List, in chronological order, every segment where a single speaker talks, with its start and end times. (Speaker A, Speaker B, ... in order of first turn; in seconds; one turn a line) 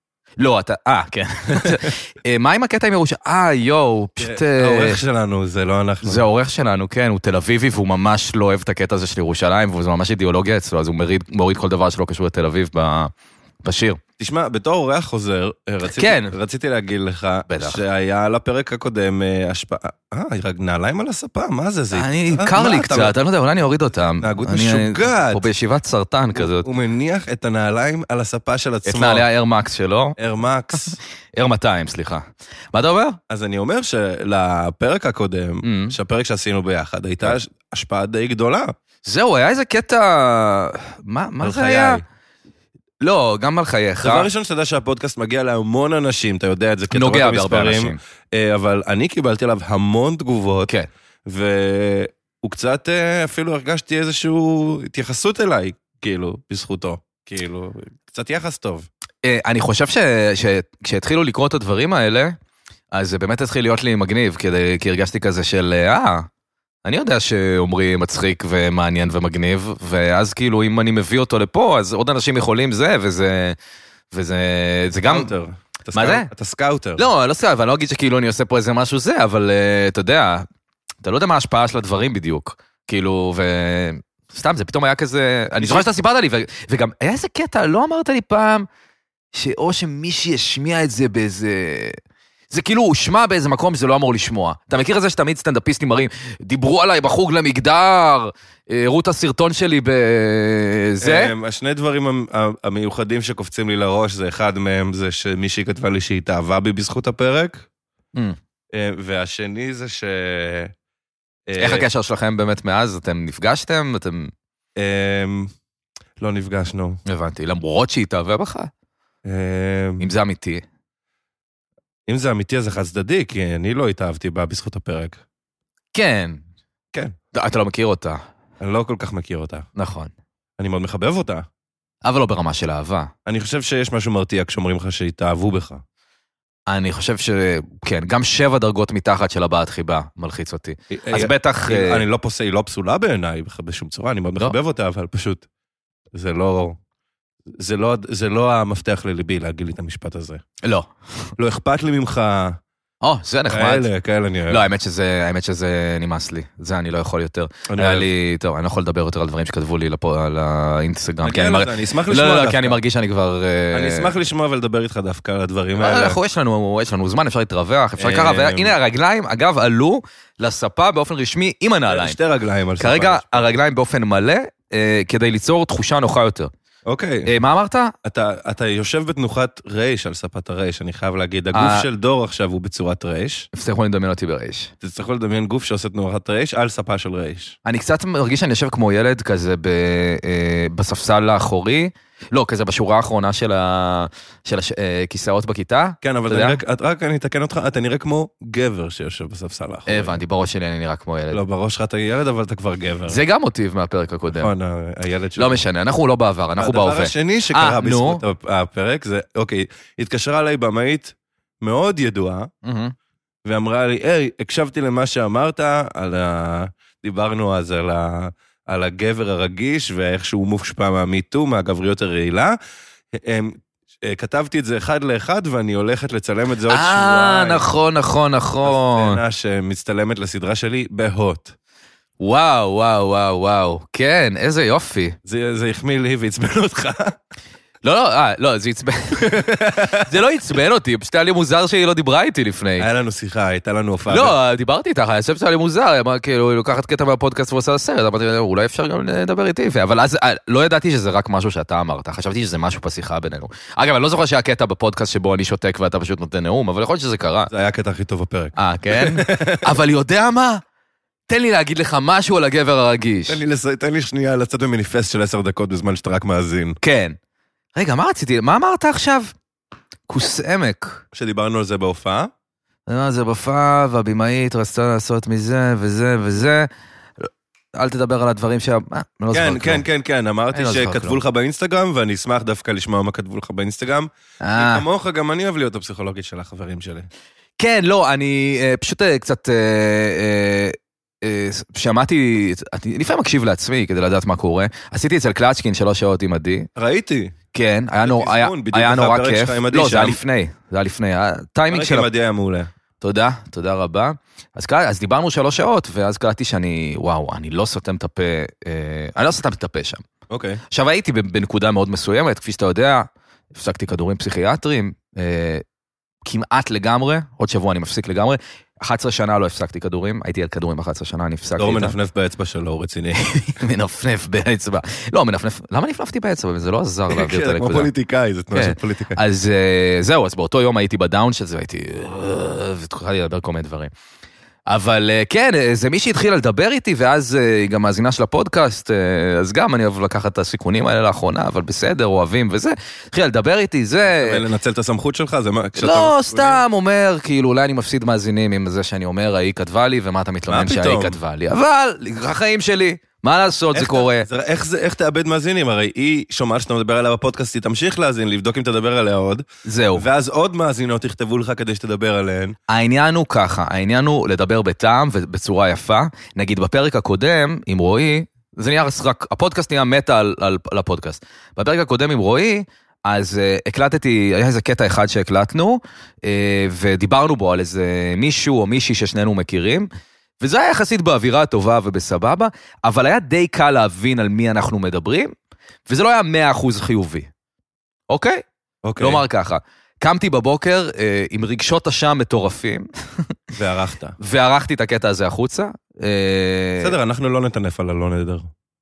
Speaker A: 0.4-5.0
Speaker B: 1.5-1.8
Speaker B: 4.2-6.3
Speaker A: 6.0-13.1
Speaker A: 13.6-14.0
Speaker B: 14.2-23.1
Speaker A: 16.0-16.4
Speaker A: 17.5-17.8
Speaker A: 21.9-26.7
Speaker B: 24.2-25.4
Speaker B: 26.4-29.3
Speaker A: 28.9-30.2
Speaker B: 30.2-31.0
Speaker A: 31.4-33.2
Speaker B: 33.3-38.7
Speaker A: 35.6-36.0
Speaker A: 39.1-42.0
Speaker B: 41.4-42.0
Speaker A: 43.0-44.3
Speaker B: 44.0-50.7
Speaker A: 46.9-48.0
Speaker B: 51.3-58.9
Speaker A: 59.2-62.4
Speaker A: 62.9-66.3
Speaker A: 66.8-73.6
Speaker A: 74.1-75.3
Speaker B: 75.1-77.1
Speaker A: 75.9-76.3
Speaker A: 77.0-80.5
Speaker A: 81.0-88.7
Speaker B: 85.6-85.9
Speaker A: 89.3-92.0
Speaker A: 92.5-101.3
Speaker B: 101.0-107.7
Speaker B: 108.7-110.7
Speaker B: 111.5-111.9
Speaker A: 111.6-114.3
Speaker B: 114.8-115.5
Speaker B: 116.2-117.0
Speaker A: 117.1-118.7
Speaker B: 119.2-120.1
Speaker A: 120.0-120.6
Speaker B: 122.1-125.2
Speaker A: 126.0-126.4
Speaker A: 127.3-128.2
Speaker B: 128.6-129.7
Speaker A: 129.8-130.1
Speaker B: 130.6-131.5
Speaker A: 132.0-133.1
Speaker B: 133.3-135.8
Speaker A: 136.7-142.1
Speaker B: 140.9-145.4
Speaker B: 146.1-146.8
Speaker B: 147.6-150.4
Speaker A: 150.6-151.3
Speaker B: 151.4-152.6
Speaker A: 153.0-153.9
Speaker B: 153.5-154.7
Speaker A: 154.5-164.1
Speaker B: 157.7-158.1
Speaker B: 161.2-162.8
Speaker B: 163.7-166.2
Speaker A: 165.8-172.2
Speaker B: 168.0-168.8
Speaker B: 171.9-173.5
Speaker A: 172.8-176.5
Speaker B: 176.9-177.3
Speaker A: 177.3-177.9
Speaker B: 178.0-183.5
Speaker A: 181.5-181.9
Speaker A: 183.5-184.7
Speaker B: 184.8-187.6
Speaker A: 187.7-196.6
Speaker B: 196.0-200.2
Speaker A: 199.9-201.4
Speaker B: 201.3-203.2
Speaker A: 203.1-204.5
Speaker B: 204.4-205.6
Speaker A: 205.4-208.2
Speaker B: 206.6-212.5
Speaker A: 212.6-212.9
Speaker B: 213.5-222.6
Speaker B: 223.1-227.7
Speaker A: 226.7-229.2
Speaker B: 228.6-231.5
Speaker A: 232.2-235.2
Speaker B: 235.2-237.2
Speaker A: 237.8-242.9
Speaker B: 239.2-240.1
Speaker B: 242.8-244.4
Speaker A: 244.1-257.5
Speaker B: 257.5-259.7
Speaker A: 258.6-260.6
Speaker A: 261.3-263.4
Speaker B: 263.3-266.8
Speaker A: 266.8-267.2
Speaker A: 267.8-269.3
Speaker A: 270.1-271.0
Speaker B: 271.1-272.3
Speaker A: 272.9-276.7
Speaker A: 277.2-279.8
Speaker B: 279.3-287.1
Speaker A: 280.5-281.2
Speaker A: 284.4-284.9
Speaker A: 287.6-296.7
Speaker B: 296.8-297.4
Speaker A: 297.5-302.1
Speaker B: 298.0-300.2
Speaker B: 301.7-302.7
Speaker A: 303.0-310.1
Speaker B: 310.3-310.6
Speaker A: 310.7-315.6
Speaker A: 316.2-322.0
Speaker B: 321.6-323.2
Speaker A: 323.2-327.9
Speaker B: 327.1-329.2
Speaker A: 328.5-333.9
Speaker A: 334.7-344.4
Speaker B: 344.1-346.6
Speaker A: 345.8-354.3
Speaker B: 350.5-351.2
Speaker B: 353.7-362.6
Speaker A: 359.6-360.1
Speaker A: 362.7-379.9
Speaker A: 380.4-385.3
Speaker A: 385.9-387.3
Speaker A: 388.1-388.4
Speaker B: 388.8-389.2
Speaker A: 389.0-393.3
Speaker B: 393.5-394.2
Speaker A: 394.2-397.0
Speaker B: 396.8-398.5